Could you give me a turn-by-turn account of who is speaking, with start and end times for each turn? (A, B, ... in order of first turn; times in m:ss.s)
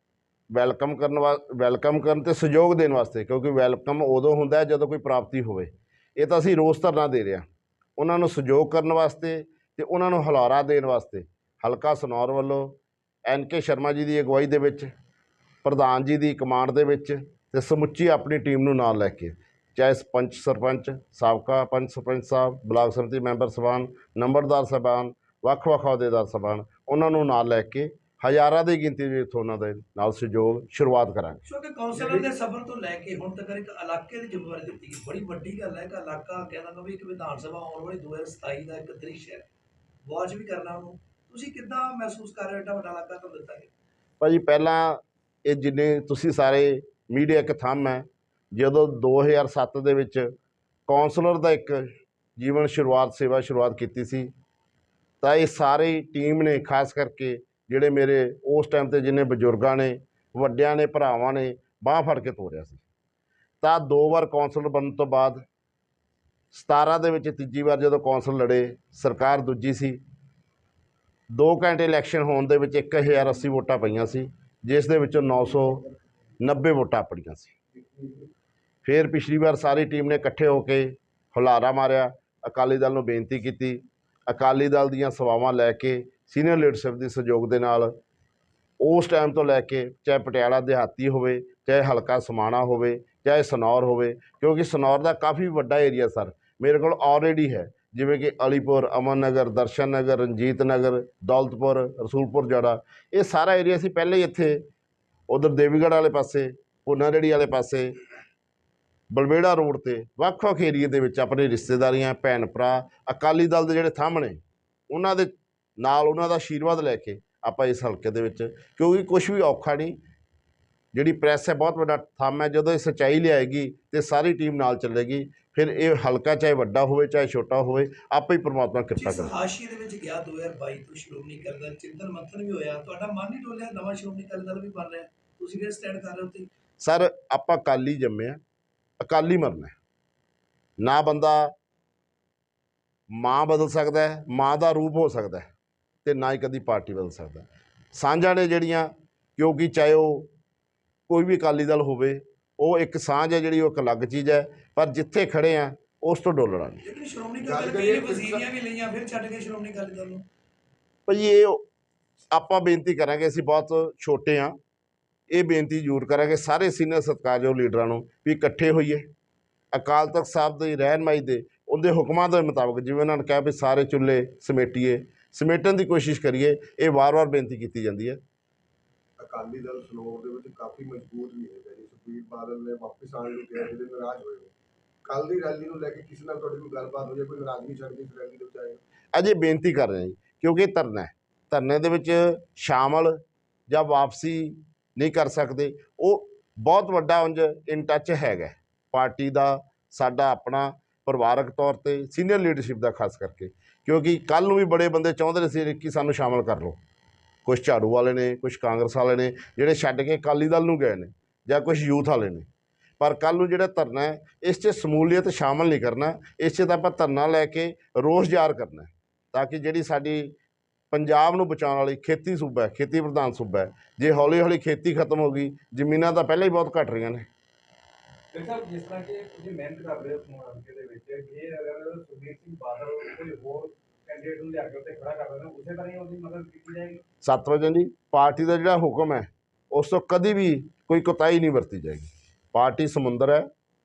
0:00.5-0:07.4 A
0:08.0-0:12.7 A
0:13.2-0:14.9 A
0:15.6-0:31.4 A
0:31.4-0:39.4 B
0:40.0-0:43.7 B
0:44.2-0:50.3 A
0:50.9-0:54.3 A
0:55.2-1:02.8 A
1:03.6-1:05.4 A
1:06.5-1:10.0 A
1:11.3-1:15.8 A
1:16.4-1:17.5 A
1:17.8-1:18.2 C
1:18.8-1:27.9 A
1:28.8-1:44.6 A
1:45.3-1:47.9 A
1:49.1-1:54.4 A
1:54.9-1:59.9 A
2:00.9-2:09.3 A
2:09.0-2:16.5 B
2:16.8-2:18.4 A
2:19.0-2:19.7 A
2:20.8-2:21.5 A
2:23.1-2:25.5 A
2:26.0-2:30.3 A
2:31.1-2:36.8 A
2:36.8-2:40.2 B
2:37.4-2:38.4 C
2:41.1-2:41.6 A
2:42.3-2:44.5 A
2:45.3-2:49.1 A
2:49.7-2:58.2 A
2:59.2-3:04.5 C
3:05.0-3:08.8 C
3:09.1-3:13.2 A
3:13.7-3:26.8 A
3:27.4-3:32.4 A
3:33.0-3:40.3 A
3:40.9-3:47.2 A
3:48.3-3:57.0 D
3:57.2-4:03.5 A